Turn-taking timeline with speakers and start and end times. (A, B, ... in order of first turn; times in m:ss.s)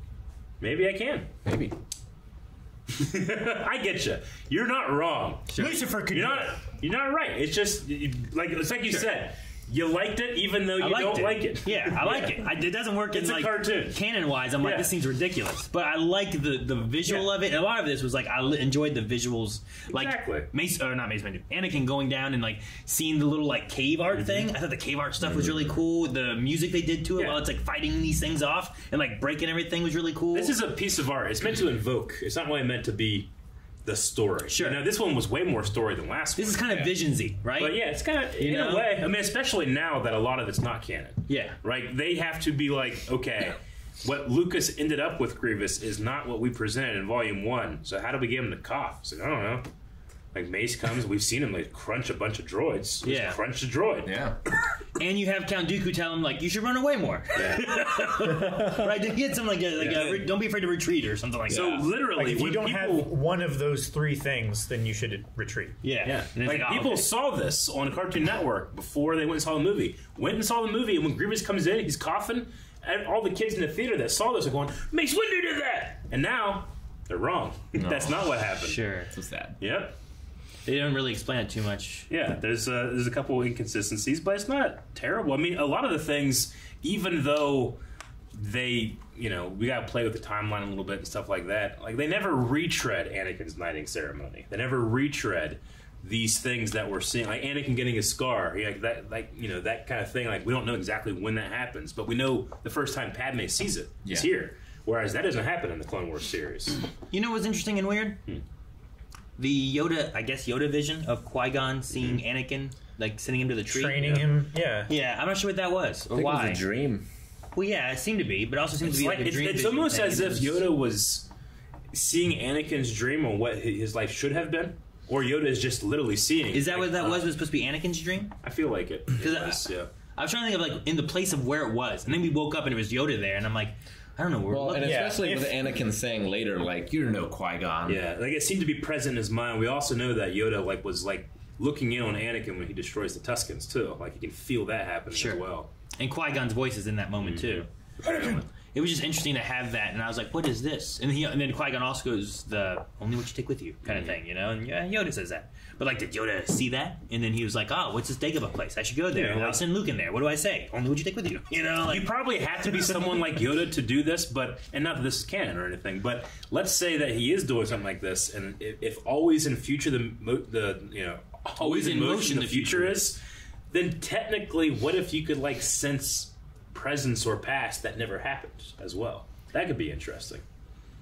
0:00.6-0:01.3 A
0:01.4-0:01.8 B
0:02.9-0:05.5 A
0:05.5-0:05.8 C
0:05.6-0:06.6 D
0:06.1-0:12.5 A
0:10.8-0:30.5 C
0:13.1-0:14.0 A
0:14.6-0:14.9 A
0:17.0-0:17.3 A
0:19.9-0:20.5 A
0:24.1-0:24.5 A
0:25.2-0:25.7 B
0:27.2-0:27.4 A
0:30.3-0:33.3 A
0:33.8-0:36.9 A
0:34.5-0:34.8 C
0:36.4-0:38.9 C
0:37.6-0:49.7 A
0:41.3-0:41.6 C
0:50.3-0:54.1 A
0:53.0-0:53.4 C
0:54.0-0:54.4 B
0:55.0-1:01.9 C
0:57.3-0:58.1 A
0:59.8-1:00.3 A
1:01.5-1:03.1 A
1:02.1-1:05.8 D
1:05.8-1:07.1 C
1:06.0-1:18.8 A
1:17.8-1:18.3 B
1:18.6-1:19.1 C
1:19.1-1:19.6 B
1:19.6-1:19.9 A
1:20.6-1:22.1 C
1:22.1-1:27.8 A
1:28.3-1:46.8 A
1:47.1-1:48.2 C
1:49.4-1:54.2 C
1:53.7-1:54.9 D
1:54.0-1:54.3 A
1:54.9-1:56.6 C
1:56.1-1:57.0 B
1:57.5-2:00.6 C
1:58.8-2:01.3 A
2:01.9-2:07.3 A
2:06.5-2:08.3 C
2:08.4-2:09.9 A
2:09.2-2:15.2 C
2:14.5-2:18.0 B
2:14.8-2:15.5 D
2:17.8-2:25.7 A
2:25.1-2:25.4 C
2:26.0-2:42.1 C
2:27.2-2:28.4 A
2:33.8-2:34.2 A
2:39.1-2:39.6 A
2:41.8-2:53.2 A
2:51.6-2:53.0 C
2:53.7-3:00.4 A